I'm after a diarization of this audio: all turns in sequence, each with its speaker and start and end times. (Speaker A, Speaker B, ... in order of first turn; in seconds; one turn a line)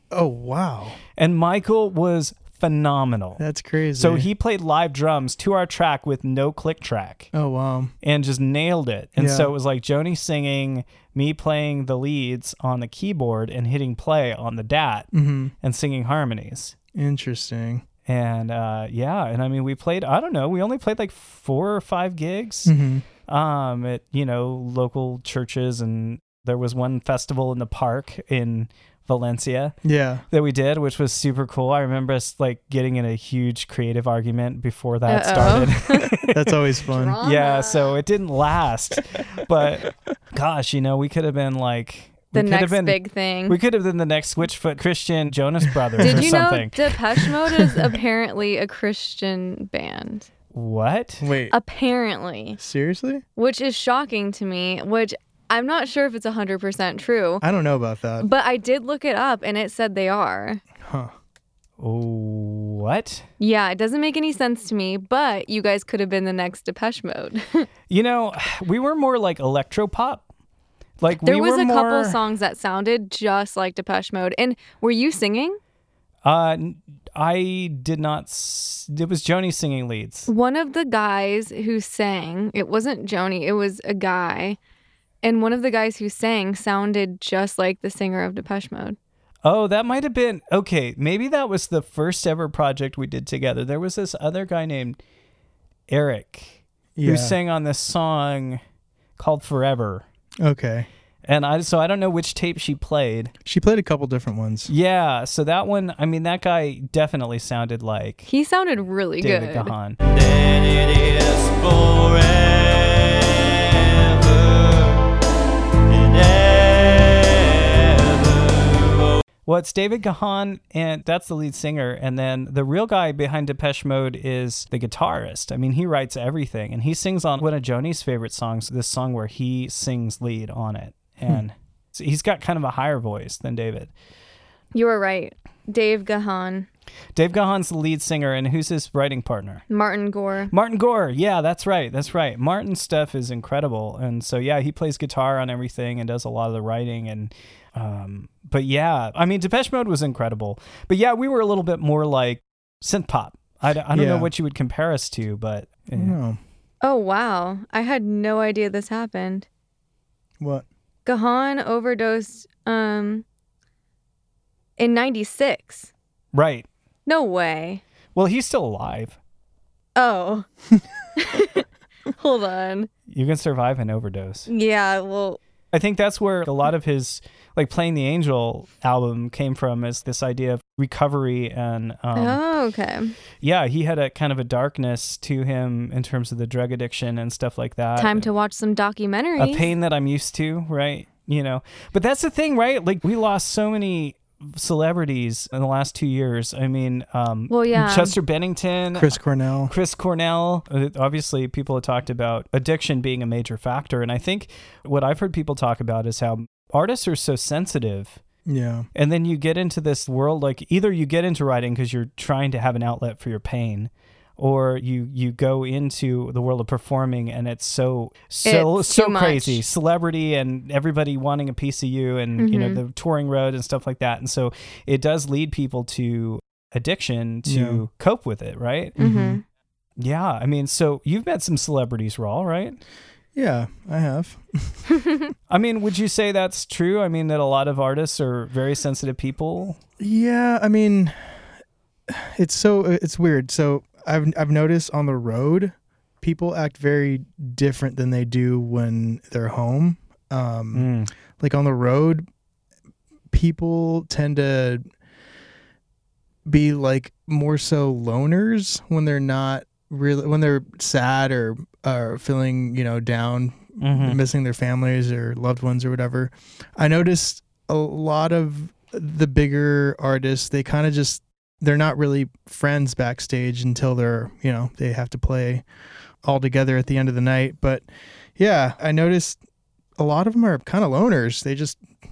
Speaker A: 0.1-1.0
Speaker B: 1.2-3.4
Speaker A: 3.4-4.3
Speaker B: 4.0-7.3
Speaker A: 7.3-7.9
Speaker B: 8.0-15.1
Speaker A: 9.2-9.5
Speaker A: 15.1-15.5
Speaker B: 15.6-16.7
Speaker A: 16.9-17.8
Speaker B: 18.1-22.7
Speaker A: 22.6-23.0
Speaker B: 23.2-29.7
Speaker A: 29.8-30.2
Speaker B: 30.3-36.6
Speaker C: 35.1-36.1
Speaker A: 35.4-35.7
Speaker A: 36.2-37.2
Speaker C: 36.9-37.9
Speaker B: 37.2-46.9
Speaker C: 42.3-43.6
Speaker A: 46.0-46.4
Speaker C: 46.0-50.3
Speaker A: 47.5-47.9
Speaker B: 50.5-51.3
Speaker A: 51.2-51.6
Speaker C: 51.5-52.6
Speaker A: 52.6-53.2
Speaker C: 53.4-57.4
Speaker A: 57.4-58.3
Speaker C: 58.2-60.6
Speaker A: 60.8-61.1
Speaker B: 61.8-63.2
Speaker C: 63.4-67.7
Speaker B: 67.9-70.2
Speaker B: 71.0-72.2
Speaker C: 71.2-75.6
Speaker B: 76.2-80.3
Speaker C: 80.3-84.6
Speaker C: 85.2-89.0
Speaker B: 89.4-95.0
Speaker B: 95.9-98.6
Speaker A: 97.0-97.3
Speaker B: 99.2-100.0
Speaker A: 100.4-100.9
Speaker B: 101.2-103.3
Speaker A: 103.4-104.7
Speaker B: 104.7-108.3
Speaker C: 108.3-109.7
Speaker B: 109.2-110.0
Speaker D: 110.1-115.0
Speaker D: 115.9-118.9
Speaker B: 119.5-133.9
Speaker C: 134.7-136.7
Speaker B: 137.1-139.6
Speaker C: 139.7-140.5
Speaker B: 140.5-156.2
Speaker A: 153.9-154.3
Speaker A: 155.9-156.4
Speaker C: 156.8-159.4
Speaker A: 160.4-160.7
Speaker C: 161.1-163.2
Speaker C: 164.8-165.9
Speaker B: 166.3-166.7
Speaker C: 167.1-167.8
Speaker B: 168.1-169.2
Speaker C: 169.9-170.5
Speaker C: 171.2-171.6
Speaker C: 172.2-172.9
Speaker B: 173.1-174.5
Speaker C: 174.5-175.4
Speaker B: 175.7-182.4
Speaker C: 182.1-183.1
Speaker B: 183.4-188.3
Speaker C: 188.0-189.7
Speaker B: 189.4-199.2
Speaker C: 197.5-198.1
Speaker A: 198.9-199.7
Speaker B: 199.7-208.2
Speaker A: 208.4-208.9
Speaker B: 208.9-229.0
Speaker C: 218.4-219.6
Speaker C: 222.4-222.8
Speaker A: 227.4-227.8
Speaker A: 229.0-229.4
Speaker C: 229.0-229.4
Speaker B: 230.0-232.8
Speaker A: 233.3-234.8
Speaker B: 235.5-239.8
Speaker A: 240.0-241.4
Speaker A: 242.1-252.2
Speaker B: 250.7-251.1
Speaker A: 253.3-254.8
Speaker A: 256.4-275.6
Speaker B: 263.8-264.2
Speaker A: 276.2-277.9
Speaker A: 278.4-279.4
Speaker A: 280.0-281.8